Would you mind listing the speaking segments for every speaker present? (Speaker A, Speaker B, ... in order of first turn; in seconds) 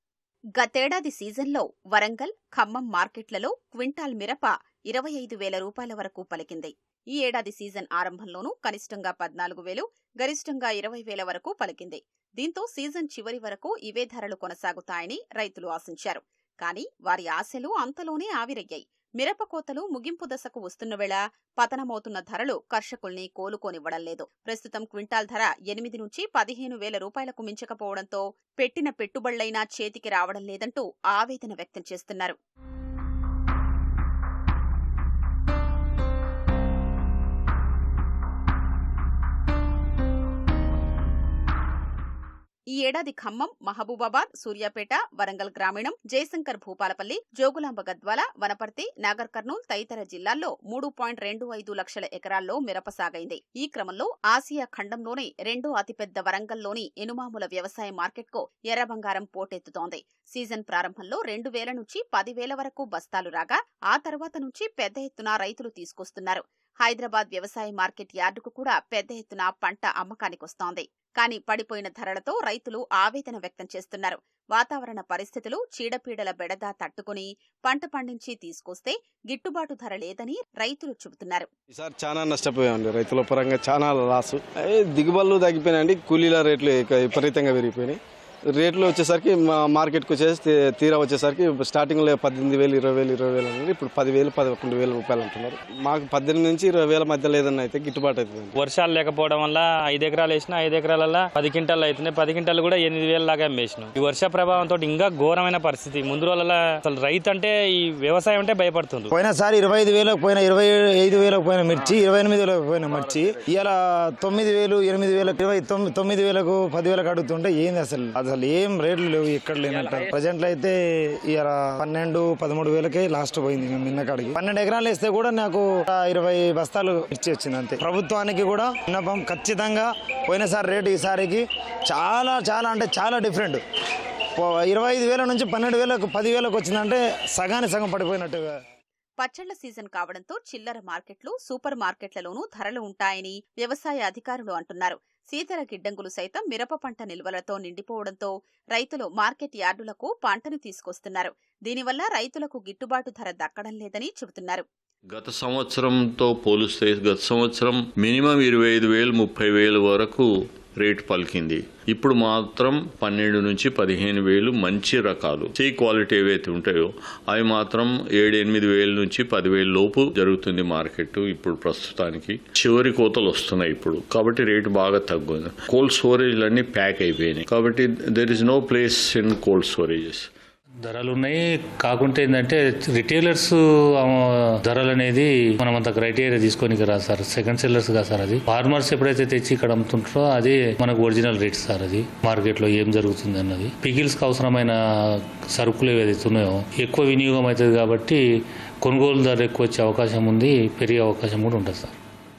Speaker A: 0.6-32.4, 42.7-81.5, 139.2-154.7
Speaker B: 81.7-88.0, 88.5-98.5
Speaker C: 98.6-109.1, 119.7-120.0
Speaker D: 109.1-120.7, 121.3-133.6, 134.4-138.5
Speaker E: 155.1-180.3
Speaker F: 180.9-184.1, 184.7-198.2, 198.8-201.9